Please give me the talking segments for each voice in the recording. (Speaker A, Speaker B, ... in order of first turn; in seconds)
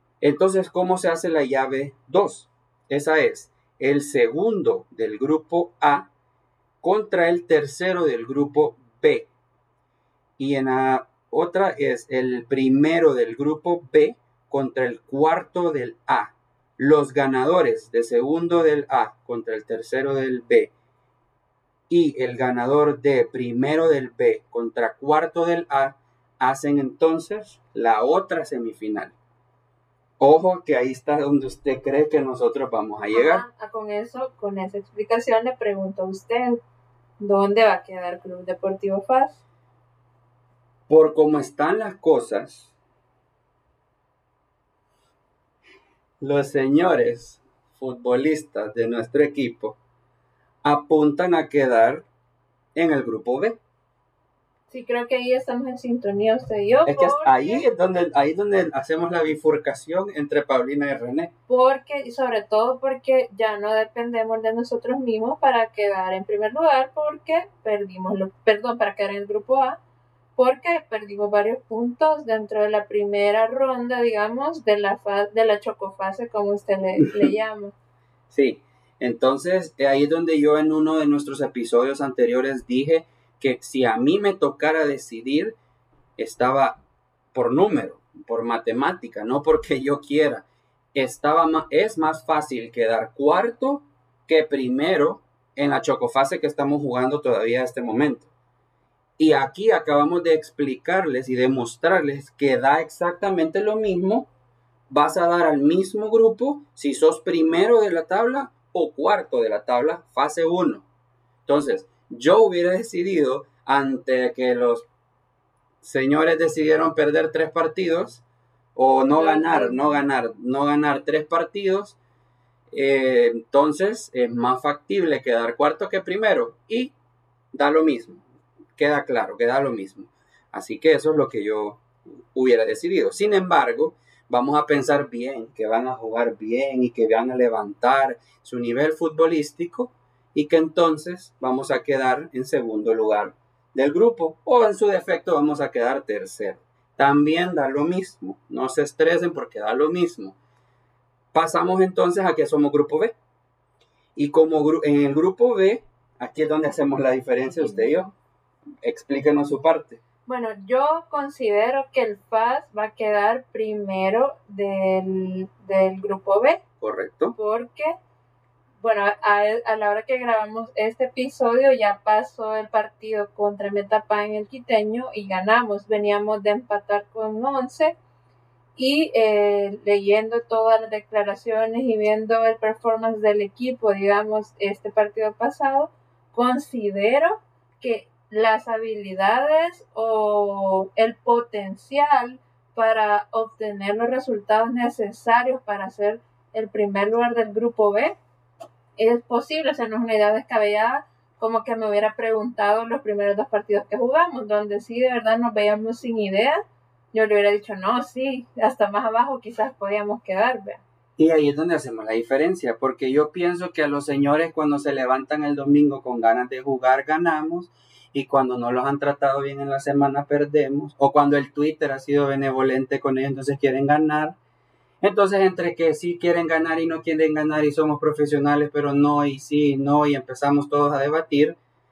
Speaker A: 0.2-6.1, 6.8-9.3, 10.4-20.7, 21.9-29.1, 30.2-33.5, 40.9-42.7, 46.2-49.8, 50.6-52.1, 52.8-53.6, 56.9-61.3, 77.0-77.3, 78.3-85.6, 86.2-86.8, 87.3-98.3, 99.2-104.3, 104.9-110.8, 111.5-114.9, 115.8-118.2, 118.8-122.0, 122.7-126.9, 127.5-128.2, 128.8-150.4, 151.3-153.1, 154.2-158.1, 158.8-160.0, 166.8-167.3, 211.2-224.4, 225.0-231.6
Speaker B: 33.1-36.6, 37.2-39.4, 54.7-57.6, 61.5-69.8, 70.4-77.8, 119.1-120.0, 157.6-157.9, 160.3-166.6, 167.3-168.0, 168.8-177.9, 178.8-198.2, 199.0-206.6, 207.1-210.8